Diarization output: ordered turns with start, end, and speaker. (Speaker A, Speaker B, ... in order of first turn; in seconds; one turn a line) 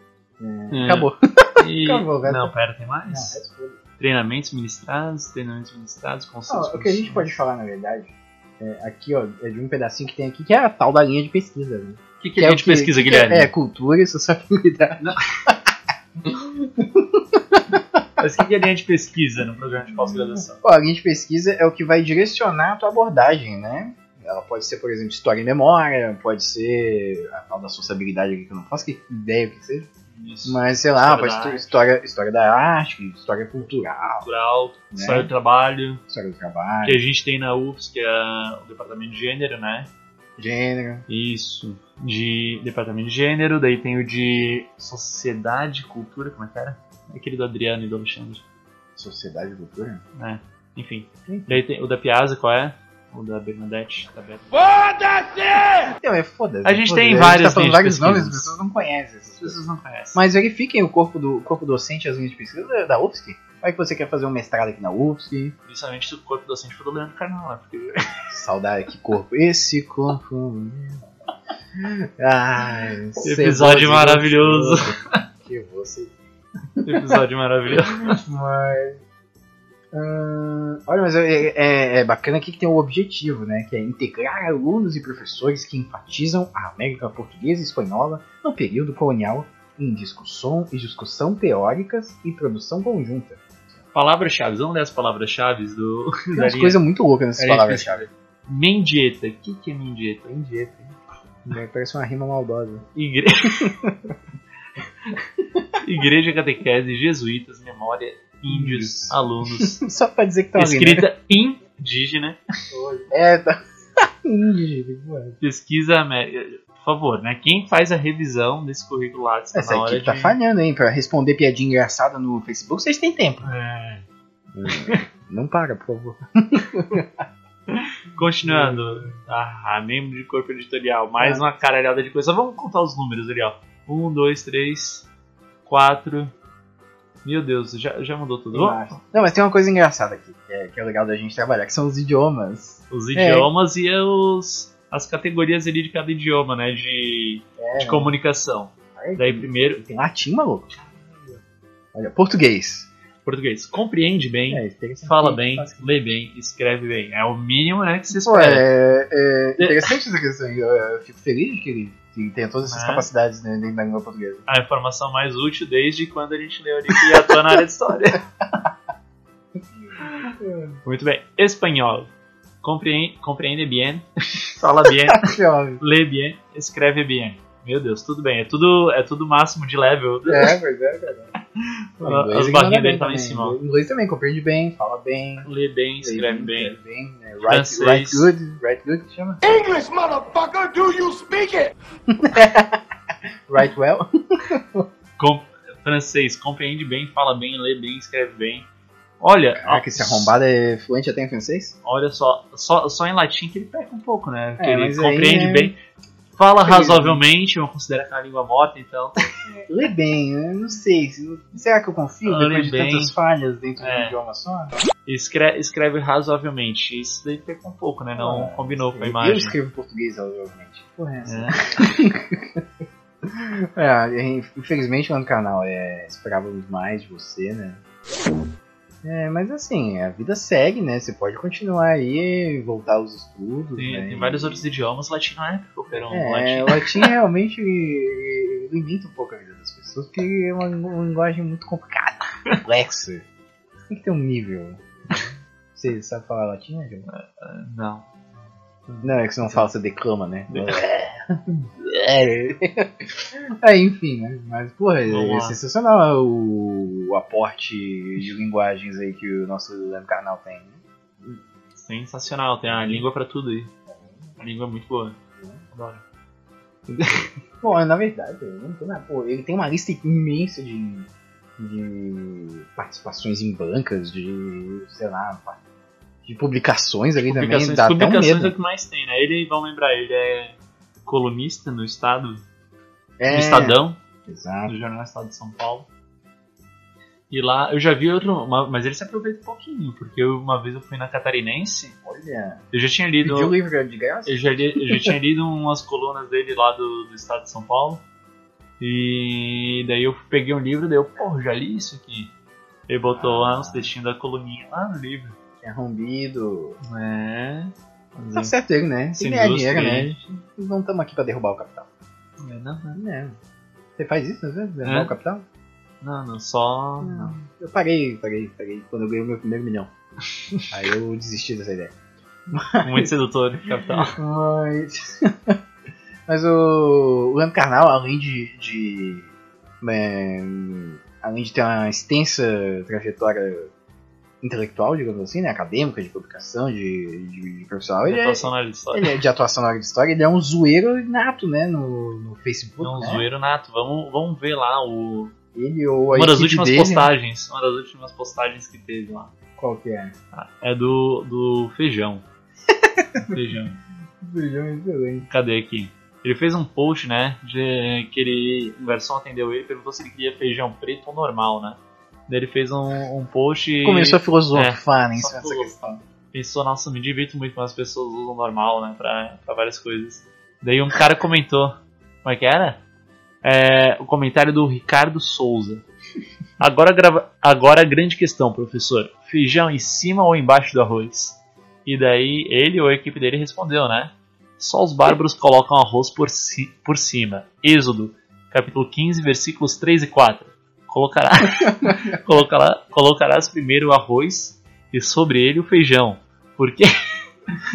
Speaker A: 0.4-2.5
Speaker B: 0.7-3.4
Speaker A: 3.1-3.8
Speaker B: 4.0-7.3
Speaker A: 6.5-18.0
Speaker B: 12.2-13.5
Speaker B: 15.0-15.3
Speaker B: 18.2-20.6
Speaker A: 20.6-29.9
Speaker B: 30.1-31.8
Speaker A: 30.5-34.3
Speaker B: 34.2-36.0
Speaker A: 34.9-35.3
Speaker A: 36.1-37.0
Speaker B: 36.8-39.9
Speaker A: 40.4-41.0
Speaker B: 41.1-48.4
Speaker A: 49.0-50.0
Speaker B: 50.2-54.5
Speaker A: 51.3-51.6
Speaker C: 55.1-55.6
Speaker A: 56.0-59.6
Speaker B: 56.6-58.5
Speaker B: 59.4-60.2
Speaker A: 60.1-65.5
Speaker B: 65.7-68.1
Speaker A: 68.3-71.1
Speaker A: 71.8-76.1
Speaker B: 73.2-74.9
Speaker A: 76.8-77.2
Speaker B: 76.8-78.2
Speaker A: 78.1-79.0
Speaker A: 79.9-93.4
Speaker B: 93.9-96.8
Speaker A: 96.3-98.1
Speaker B: 97.4-100.4
Speaker A: 100.3-100.8
Speaker A: 101.5-102.8
Speaker B: 103.0-103.7
Speaker A: 103.6-104.2
Speaker B: 105.8-109.8
Speaker A: 108.5-111.1
Speaker B: 110.6-112.4
Speaker A: 112.7-115.4
Speaker B: 115.4-120.4
Speaker A: 119.5-123.5
Speaker B: 123.4-124.1
Speaker A: 124.5-127.1
Speaker B: 124.7-125.0
Speaker B: 127.7-135.1
Speaker A: 128.4-129.1
Speaker B: 135.7-136.3
Speaker B: 137.2-138.9
Speaker A: 138.5-143.5
Speaker B: 142.9-149.8
Speaker A: 147.6-148.1
Speaker A: 148.9-150.7
Speaker A: 151.9-152.9
Speaker B: 153.2-158.7
Speaker A: 154.5-155.8
Speaker A: 158.2-164.4
Speaker B: 159.6-159.9
Speaker B: 162.7-163.1
Speaker B: 164.5-168.2
Speaker A: 166.9-167.3
Speaker A: 169.8-170.8
Speaker B: 170.1-172.1
Speaker B: 172.6-180.6
Speaker A: 175.1-175.8
Speaker A: 180.3-181.3
Speaker B: 182.0-183.6
Speaker A: 182.0-185.5
Speaker B: 185.4-186.8
Speaker A: 186.0-189.4
Speaker B: 187.4-188.3
Speaker C: 189.4-191.7
Speaker A: 192.1-192.8
Speaker A: 193.5-194.9
Speaker B: 195.2-198.7
Speaker B: 199.2-200.3
Speaker A: 199.6-201.7
Speaker B: 201.8-205.8
Speaker A: 204.6-205.7
Speaker B: 206.3-209.2
Speaker A: 206.6-207.2
Speaker A: 209.7-214.8
Speaker B: 212.2-213.1
Speaker B: 213.8-214.2
Speaker B: 215.1-219.6
Speaker A: 218.2-222.6
Speaker B: 221.3-221.9
Speaker A: 223.2-227.8
Speaker A: 229.0-234.7
Speaker B: 233.8-237.1
Speaker A: 236.1-243.2
Speaker A: 243.9-245.2
Speaker A: 245.8-247.1
Speaker B: 247.1-248.1
Speaker B: 248.9-249.7
Speaker A: 249.0-260.8
Speaker B: 250.5-250.8
Speaker B: 255.1-255.6
Speaker B: 261.2-263.7
Speaker A: 262.7-263.0
Speaker A: 263.9-264.3
Speaker B: 264.4-265.2
Speaker B: 265.7-266.0
Speaker A: 267.6-275.6
Speaker A: 276.2-278.5
Speaker B: 277.2-282.4
Speaker A: 283.2-284.8
Speaker B: 283.3-284.0
Speaker B: 284.7-285.9
Speaker B: 287.3-292.0
Speaker A: 292.1-292.6
Speaker B: 292.7-293.6
Speaker A: 293.2-295.1
Speaker B: 294.3-298.0
Speaker B: 298.8-302.3
Speaker B: 302.9-305.4
Speaker A: 303.1-303.9
Speaker A: 305.6-306.8
Speaker B: 306.8-308.5
Speaker A: 308.3-311.9
Speaker B: 309.2-310.1
Speaker B: 312.4-313.0
Speaker A: 312.9-313.4
Speaker A: 314.0-315.4
Speaker B: 314.8-315.1
Speaker B: 316.0-317.4
Speaker A: 317.0-319.9
Speaker A: 320.7-321.9
Speaker A: 322.5-323.1
Speaker B: 322.8-324.1
Speaker A: 324.1-325.6
Speaker A: 326.3-329.3
Speaker A: 329.8-333.7
Speaker A: 334.4-343.3
Speaker B: 338.1-339.1
Speaker B: 342.8-345.3
Speaker A: 345.5-347.1
Speaker B: 346.1-349.3
Speaker A: 349.6-350.1
Speaker B: 350.3-352.2
Speaker A: 352.7-353.4
Speaker B: 353.2-353.8
Speaker A: 354.2-355.3
Speaker B: 355.2-365.7
Speaker A: 363.8-366.0
Speaker B: 366.3-372.8
Speaker B: 373.4-375.8
Speaker B: 376.6-396.9
Speaker A: 391.7-392.1